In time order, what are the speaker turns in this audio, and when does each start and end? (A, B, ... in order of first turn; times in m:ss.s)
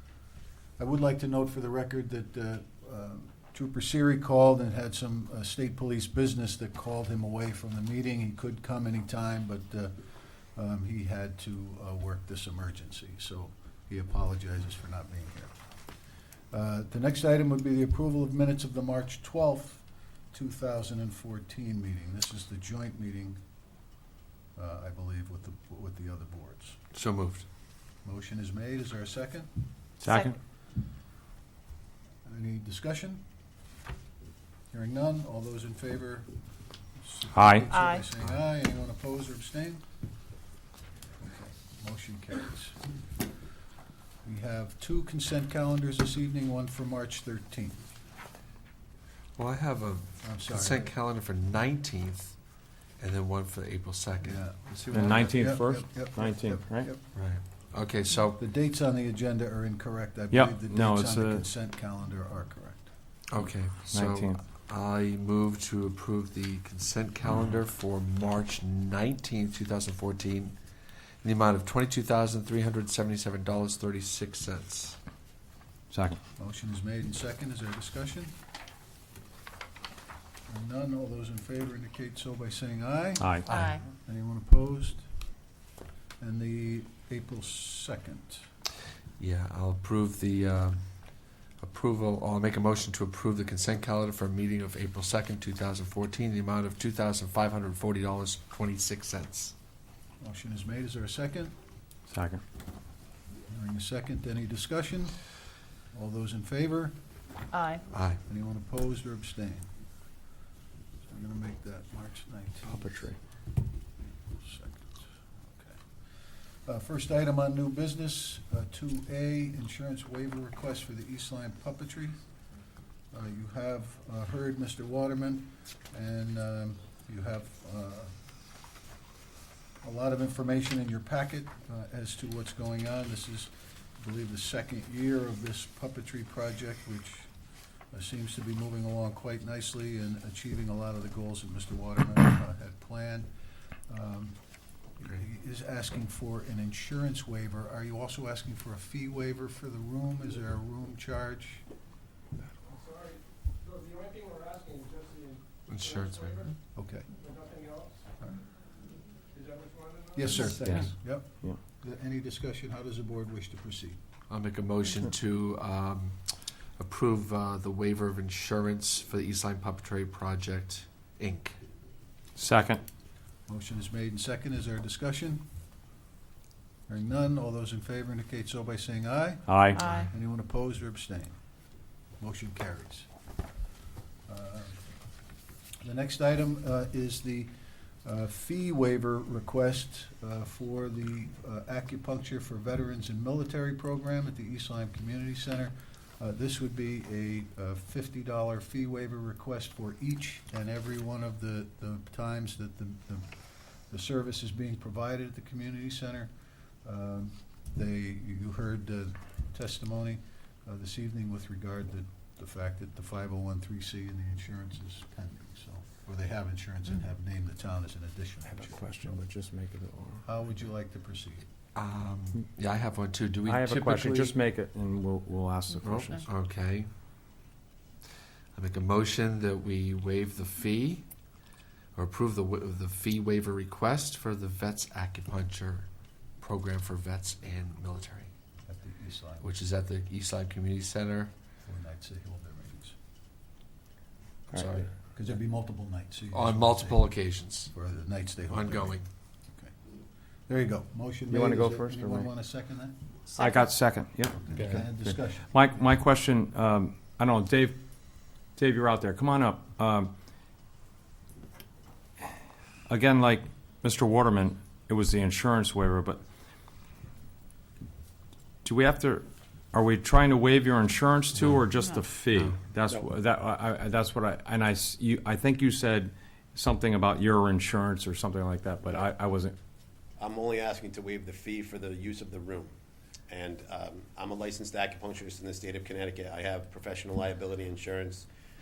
0:00.8-0:15.6 A
0:16.5-0:23.4 A
0:24.6-0:26.8 A
0:26.9-0:27.5 B
0:28.0-0:29.5 A
0:30.0-0:30.4 C
0:30.0-0:30.3 D
0:32.2-0:33.2 A
0:34.7-0:36.3 A
0:37.0-0:39.8 A
0:37.3-0:37.7 C
0:37.7-0:38.0 D
0:41.2-0:42.9 A
0:44.2-0:47.9 A
0:49.4-0:52.4 B
0:50.2-0:50.9 A
0:53.0-0:55.4 B
0:54.2-0:57.0 A
0:54.9-0:56.9 C
0:57.1-0:58.4 B
0:58.4-1:02.9 A
1:00.3-1:01.5 C
1:03.3-1:10.6 B
1:03.9-1:04.4 C
1:11.2-1:15.0 B
1:15.9-1:16.2 C
1:16.4-1:18.3 A
1:20.5-1:25.1 A
1:23.2-1:23.5 C
1:23.5-1:23.8 B
1:23.5-1:23.8 D
1:26.2-1:28.5 A
1:29.2-1:39.5 B
1:40.2-1:41.5 A
1:42.1-1:42.4 C
1:43.5-1:45.3 A
1:45.9-1:46.9 A
1:47.5-1:47.8 D
1:47.9-1:48.2 B
1:48.2-1:49.7 A
1:51.0-1:53.1 A
1:52.7-1:53.2 C
1:54.3-2:02.2 A
2:03.1-2:08.2 A
2:09.8-2:17.3 A
2:17.9-2:23.3 A
2:23.8-2:24.4 A
2:25.0-2:31.6 A
2:32.7-2:35.4 E
2:35.7-2:36.5 B
2:36.7-2:37.1 A
2:37.2-2:38.0 E
2:39.4-2:40.3 E
2:40.1-2:44.0 A
2:40.4-2:41.6 C
2:44.3-2:51.6 B
2:52.4-2:52.8 C
2:53.5-2:55.4 A
2:56.9-3:01.4 A
2:59.5-2:59.8 C
2:59.7-3:00.1 D
3:02.2-3:03.1 A
3:04.3-3:04.8 A
3:05.8-3:39.2 A
3:38.5-3:40.2 C
3:40.2-3:41.5 A
3:41.7-3:44.3 B
3:43.4-3:46.2 C
3:45.8-3:46.9 B
3:48.5-3:51.0 B
3:51.9-3:55.9 B
3:56.4-3:58.3 B
3:58.7-3:59.5 A
3:59.4-4:01.3 B
4:01.6-4:03.0 A
4:04.5-4:04.9 C
4:04.5-4:04.9 B
4:05.1-4:07.1 A
4:06.3-4:07.7 B
4:07.7-4:09.7 A
4:08.5-4:09.0 B
4:10.5-4:12.9 A
4:11.3-4:12.3 C
4:13.3-4:13.7 D
4:13.3-4:20.1 C
4:14.4-4:15.5 A
4:14.6-4:14.8 B
4:22.9-4:26.2 C
4:28.6-4:39.5 C
4:38.8-4:39.1 F
4:40.2-4:42.7 F
4:43.3-4:48.3 F